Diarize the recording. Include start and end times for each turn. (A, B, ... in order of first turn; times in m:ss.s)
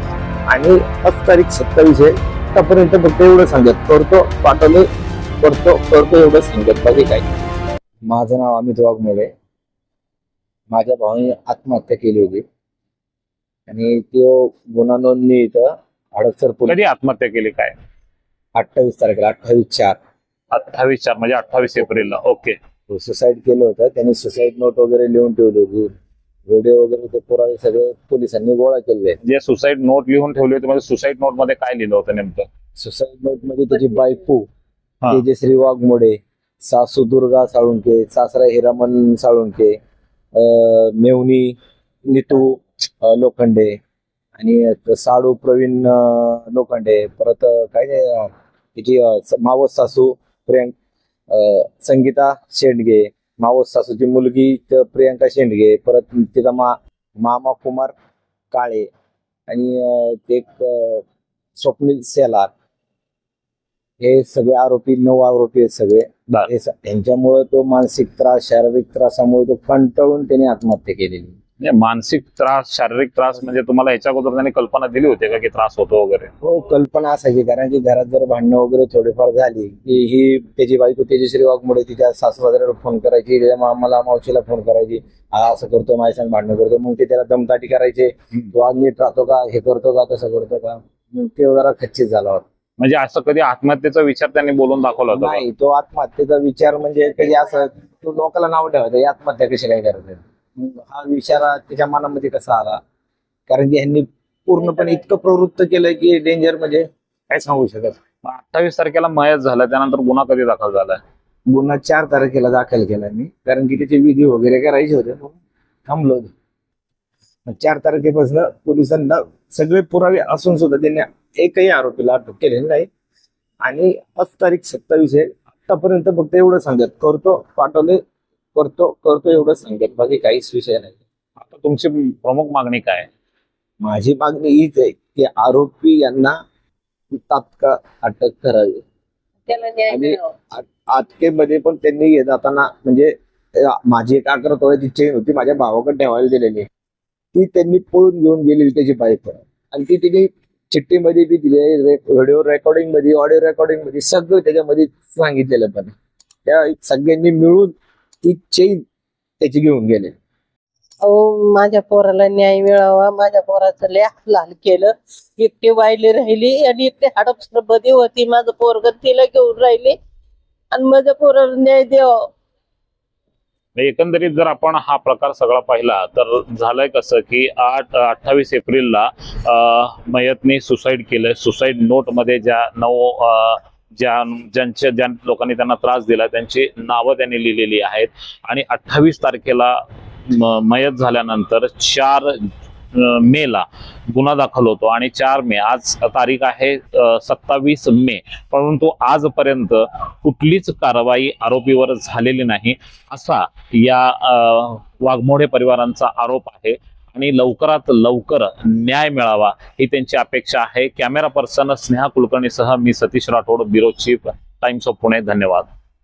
0:00.5-0:04.9 A
0:05.4-0:07.3 A
0:08.1-0:09.3 A
0:10.7-0:12.4 A
0:13.7-0:16.8 A
0:16.7-0:17.8 B
0:18.6-0:20.0 A
0:20.5-0:22.6 B
0:22.9-0:25.9 A
0:26.5-0:29.2 A
0:29.2-0:32.5 B
0:32.8-0:34.5 A
0:35.1-0:39.8 A
0:40.4-0:41.6 A
0:42.1-0:43.8 A
0:44.4-0:50.7 A
0:51.3-0:57.9 A
0:58.5-0:58.9 A
0:59.5-1:01.0 A
1:01.6-1:02.5 A
1:04.0-1:11.4 A
1:11.6-1:16.3 B
1:16.4-1:32.4 A
1:32.8-1:35.4 B
1:35.1-1:42.8 A
1:43.5-1:48.0 A
1:48.2-1:51.0 B
1:51.5-1:56.3 A
1:57.5-2:02.9 A
2:03.6-2:08.0 A
2:08.6-2:11.0 A
2:11.4-2:13.1 B
2:13.8-2:16.4 A
2:17.1-2:18.8 A
2:19.5-2:20.3 C
2:19.9-2:26.7 A
2:27.3-2:36.0 A
2:36.5-2:38.8 A
2:39.4-2:40.1 A
2:41.0-2:50.0 C
2:50.7-2:52.3 C
2:53.8-3:35.7 B